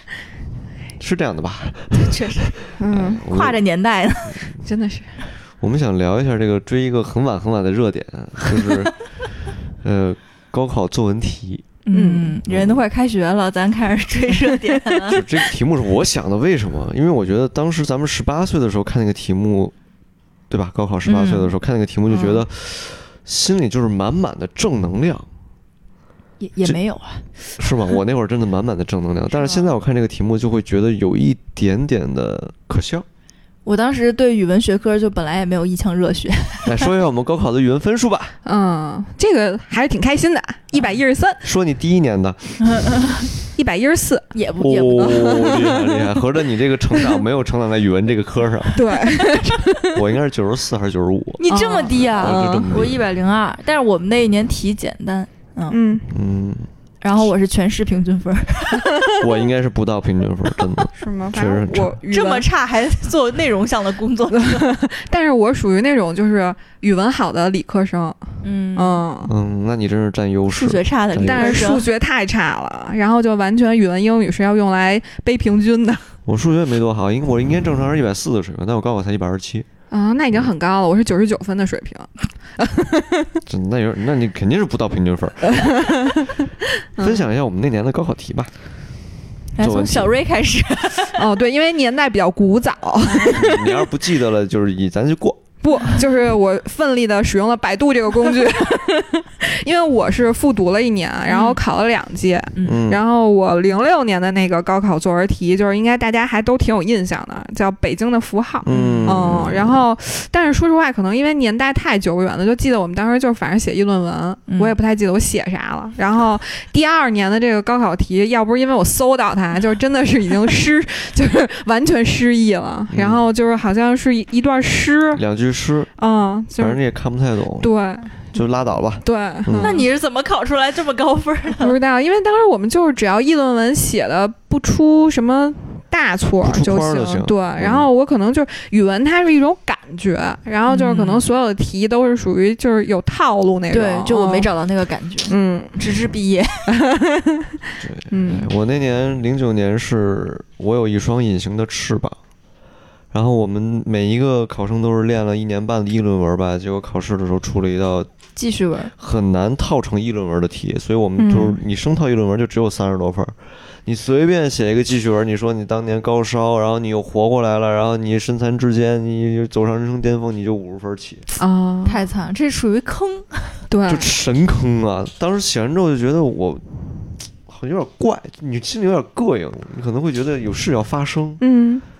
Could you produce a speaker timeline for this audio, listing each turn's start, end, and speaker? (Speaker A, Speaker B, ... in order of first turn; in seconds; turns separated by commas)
Speaker A: 1.0-3.6, Speaker B: 1.9-2.5, Speaker C: 2.8-3.2, Speaker B: 3.3-4.5, Speaker C: 4.6-5.2, Speaker A: 5.6-8.9, Speaker A: 9.8-11.7, Speaker B: 11.8-15.2, Speaker C: 11.9-12.4, Speaker A: 12.5-12.8, Speaker A: 15.1-19.7, Speaker A: 20.5-25.3, Speaker B: 21.1-21.5, Speaker C: 22.1-22.4, Speaker B: 26.4-27.2, Speaker A: 27.6-33.0, Speaker B: 33.6-36.9, Speaker A: 36.6-38.3, Speaker C: 38.4-41.4, Speaker A: 41.4-42.8, Speaker B: 42.6-43.3, Speaker C: 43.5-44.3, Speaker B: 44.3-45.5, Speaker A: 44.6-48.8, Speaker C: 45.0-46.1, Speaker C: 48.7-50.0, Speaker A: 49.9-53.0, Speaker B: 51.4-55.9, Speaker C: 51.5-52.7, Speaker C: 55.7-56.1, Speaker A: 56.1-56.7, Speaker B: 57.0-59.1, Speaker A: 59.2-62.0, Speaker C: 61.0-62.5, Speaker B: 62.1-64.6, Speaker C: 64.3-69.3, Speaker B: 68.4-69.0, Speaker A: 69.2-71.8, Speaker B: 70.5-71.8, Speaker C: 71.2-76.0, Speaker A: 76.2-79.7, Speaker C: 79.9-83.4, Speaker A: 83.5-86.0, Speaker C: 85.5-86.4, Speaker C: 87.0-87.2, Speaker A: 87.0-88.5, Speaker B: 89.5-91.2, Speaker A: 89.6-90.1, Speaker C: 91.1-93.9, Speaker B: 93.1-93.3, Speaker A: 93.2-95.5, Speaker C: 95.6-125.2, Speaker B: 101.3-101.6, Speaker A: 102.6-103.0, Speaker A: 108.6-109.8, Speaker B: 108.7-109.2, Speaker B: 114.5-114.8, Speaker A: 122.9-123.2, Speaker A: 125.1-125.9, Speaker C: 126.0-126.8, Speaker A: 126.6-127.7, Speaker C: 127.6-128.4, Speaker A: 128.3-129.8, Speaker C: 129.0-129.9, Speaker B: 129.6-131.7, Speaker C: 131.6-144.5, Speaker A: 136.4-137.9, Speaker B: 140.7-141.2, Speaker B: 143.7-146.7, Speaker C: 145.3-145.8, Speaker C: 146.7-147.6, Speaker A: 147.8-152.2, Speaker C: 148.1-148.5, Speaker A: 153.1-158.1, Speaker B: 158.3-158.9, Speaker A: 159.0-171.2, Speaker C: 161.2-161.6, Speaker C: 171.4-172.1, Speaker B: 171.8-173.6, Speaker C: 173.7-174.1, Speaker A: 173.8-176.6, Speaker A: 177.4-181.4, Speaker C: 181.4-181.8